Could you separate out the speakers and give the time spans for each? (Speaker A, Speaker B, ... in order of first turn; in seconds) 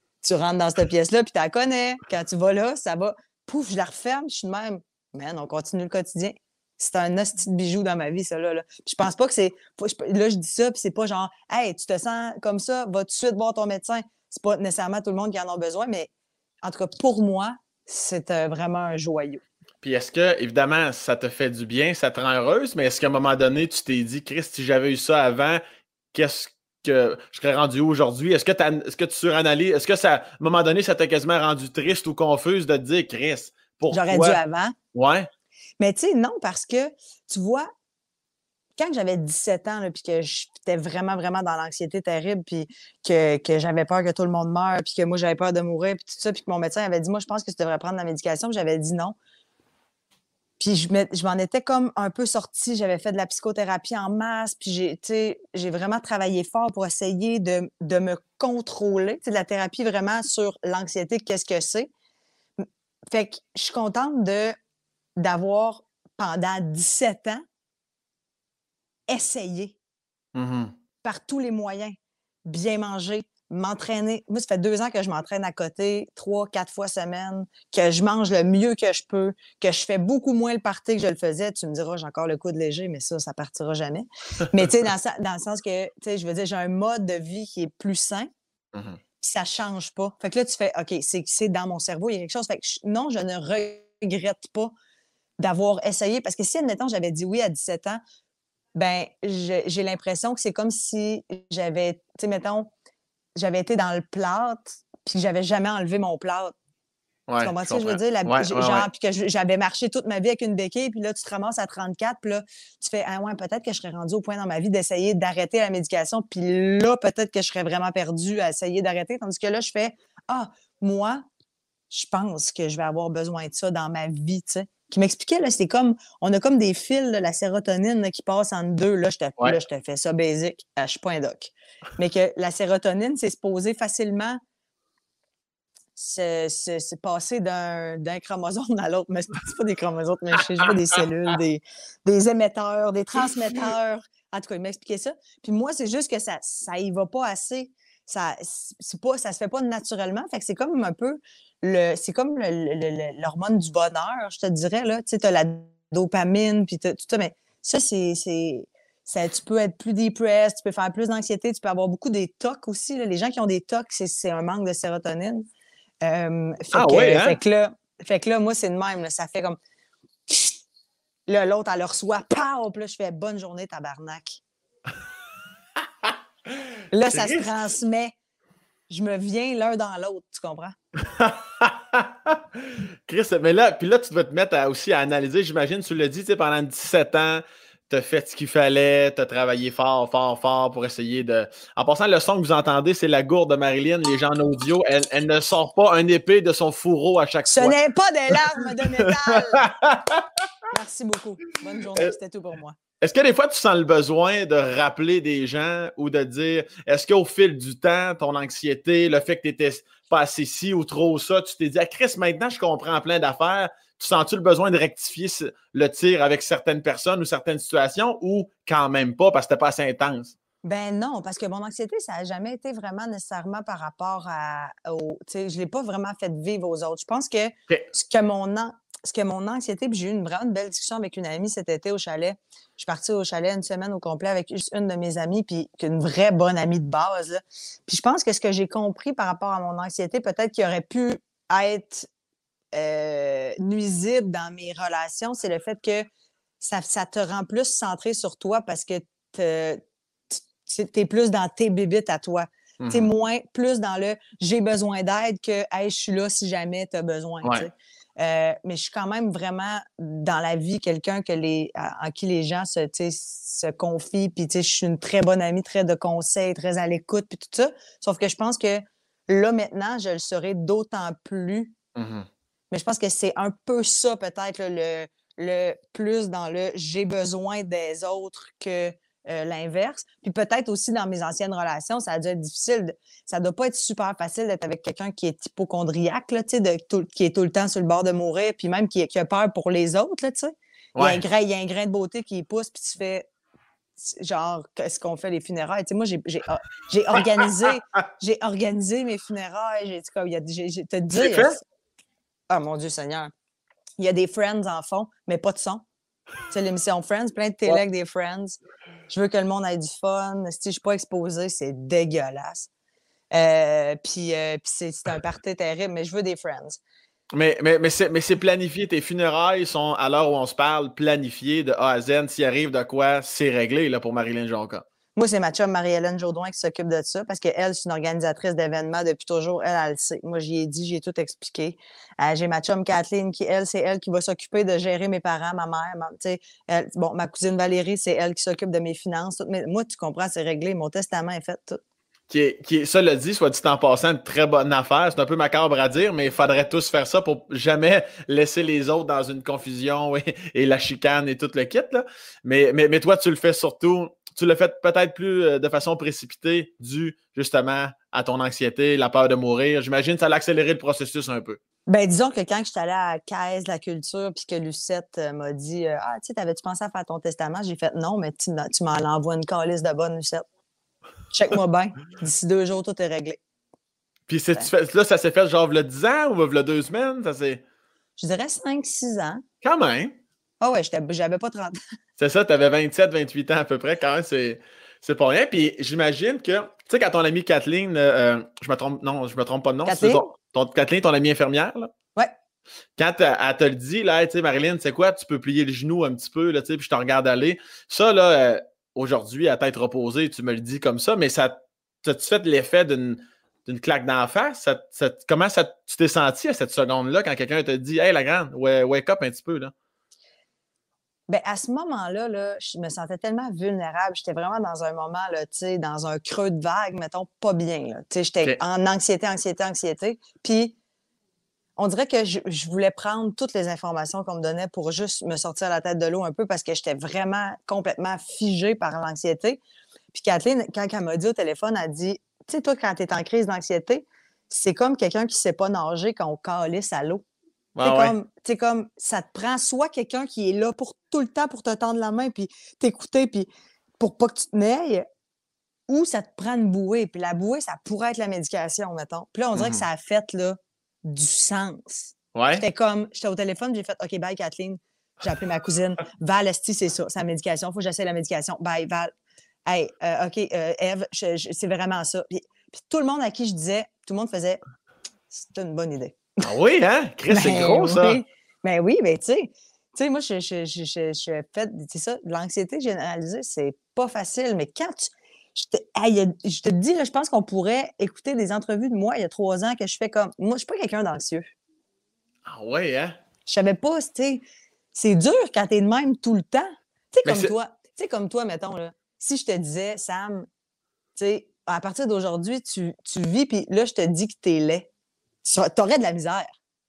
Speaker A: 0.2-16.1, 16.6-19.4, 33.9-34.8, 35.8-37.7, 38.8-49.2, 50.6-61.9, 62.6-64.6, 65.2-67.4, 69.1-69.8, 71.0-71.9, 72.5-88.3, 89.2-94.7, 95.4-98.0, 98.8-102.7, 103.4-106.5, 107.4-121.3, 121.9-134.4, 136.0-165.5, 166.0-169.6, 170.3-170.6, 171.3-174.4, 176.9-178.1, 178.9-180.8, 197.5-199.7, 200.7-202.8, 220.6-242.1, 242.7-246.1, 246.6-271.8, 272.7-293.3, 294.0-301.6, 302.5-303.3, 304.0-305.9, 306.5-312.7, 313.3-316.8, 325.2-341.8, 361.9-370.4, 371.3-373.4, 378.2-379.4, 380.6-381.8, 389.9-390.2, 411.3-420.8, 421.8-429.6, 430.1-437.2, 437.8-443.5, 444.0-445.0, 445.9-459.1, 459.7-464.6, 465.3-466.3, 467.3-481.5, 483.5-484.4, 484.9-490.5, 491.1-494.9, 495.4-496.6
Speaker B: 19.8-25.6, 26.1-34.4, 34.9-35.3, 70.3-70.8, 88.7-89.0, 107.3-108.9, 166.7-167.4, 176.1-177.5, 181.1-197.8, 198.3-200.4, 203.0-220.3, 252.8-253.1, 257.4-257.7, 271.9-272.3, 291.0-291.2, 297.2-297.7, 301.1-301.6, 317.3-324.8, 342.3-361.6, 374.3-377.6, 379.6-380.2, 382.2-391.9, 393.0-409.7, 437.8-438.1, 449.6-449.9, 452.4-452.6, 466.4-468.2, 482.5-483.2, 487.2-487.5